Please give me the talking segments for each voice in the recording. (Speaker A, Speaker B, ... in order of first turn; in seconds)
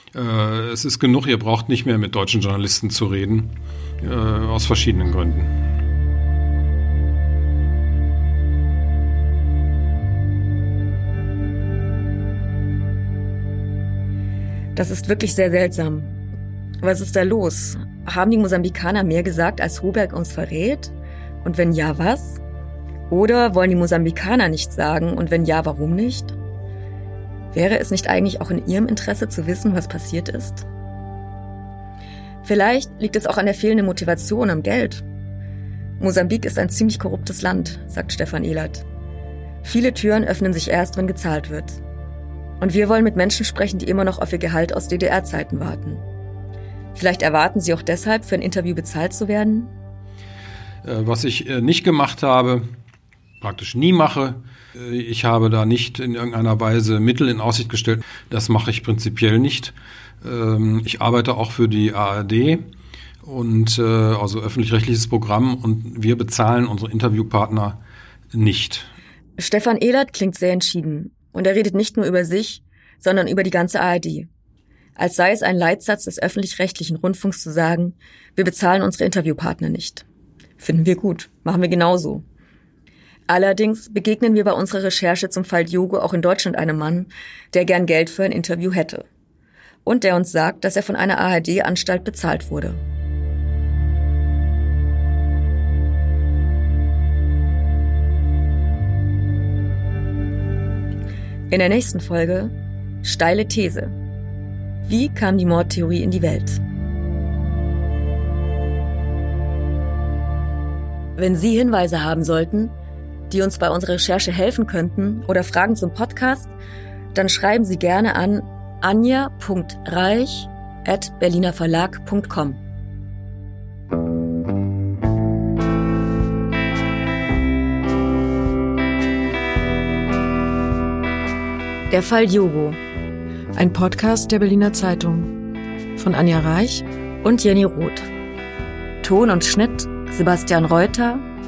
Speaker A: 0.1-5.5, 50.8-52.8, 53.4-62.7, 63.2-67.8, 68.3-68.9
Speaker B: 14.8-16.2, 16.8-22.4, 23.1-26.3, 27.5-30.6, 32.4-35.0, 36.0-38.9, 39.6-41.8, 42.6-46.0, 47.0-49.7, 69.4-74.3, 75.0-80.0, 80.6-82.2, 83.3-89.1, 89.8-92.8, 101.5-103.9, 104.9-106.6, 111.2-112.8, 113.3-116.5, 117.1-122.6, 131.9-132.8, 137.2-138.1, 139.0-141.2
Speaker C: 133.6-135.3, 136.0-136.8